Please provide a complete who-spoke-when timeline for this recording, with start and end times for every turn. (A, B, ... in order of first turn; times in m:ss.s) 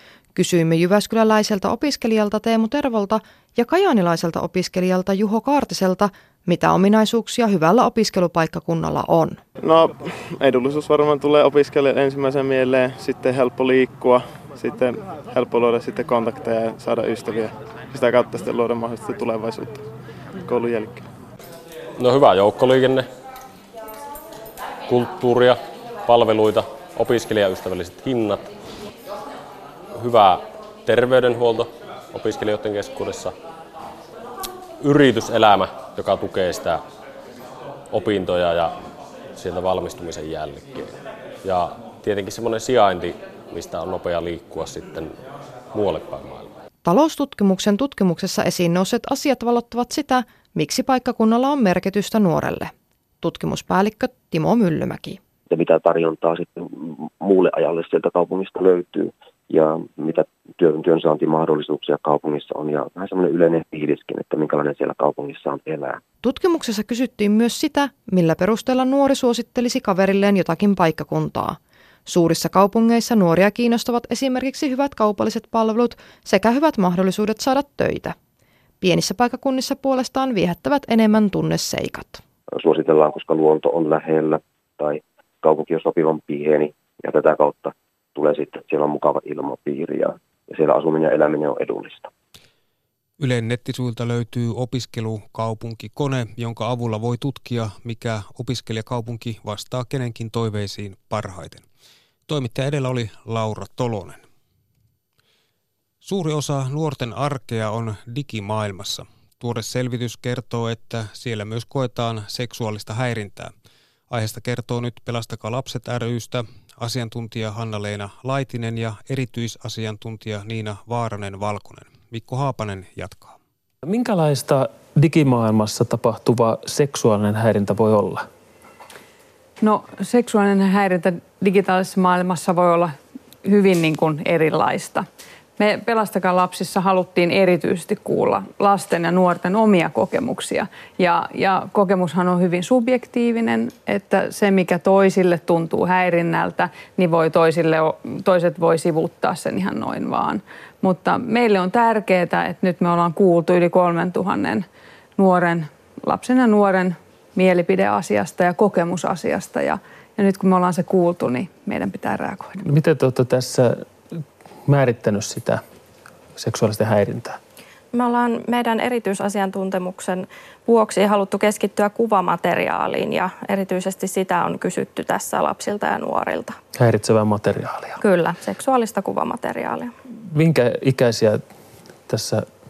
0:00.4-0:09.4 A
0:09.6-0:19.8 B
0:20.4-0:21.1 B
0:22.0-0:23.1 C
0:24.9-0:28.5 C
0:29.9-0:33.4 C
0:34.8-0:36.8 C
0:37.9-0:38.8 C
0:39.3-0:45.2 C
0:45.7-0:46.6 C
0:46.8-0:55.2 A
0:55.5-1:06.0 D
1:06.2-1:18.2 A
1:18.8-1:22.2 A
1:22.5-1:32.1 D
1:33.2-1:41.6 E
1:42.3-1:44.2 E
1:46.0-1:53.5 E
1:54.1-2:03.4 E
2:03.8-2:08.3 F
2:09.6-2:15.1 G
2:15.6-2:34.7 G
2:35.2-2:42.6 G
2:42.6-2:43.9 F
2:44.7-2:45.6 F
2:46.4-2:47.4 F
2:47.9-2:56.6 H
2:56.8-2:58.0 F
2:58.0-2:59.9 H
3:00.3-3:01.4 F
3:02.1-3:02.5 F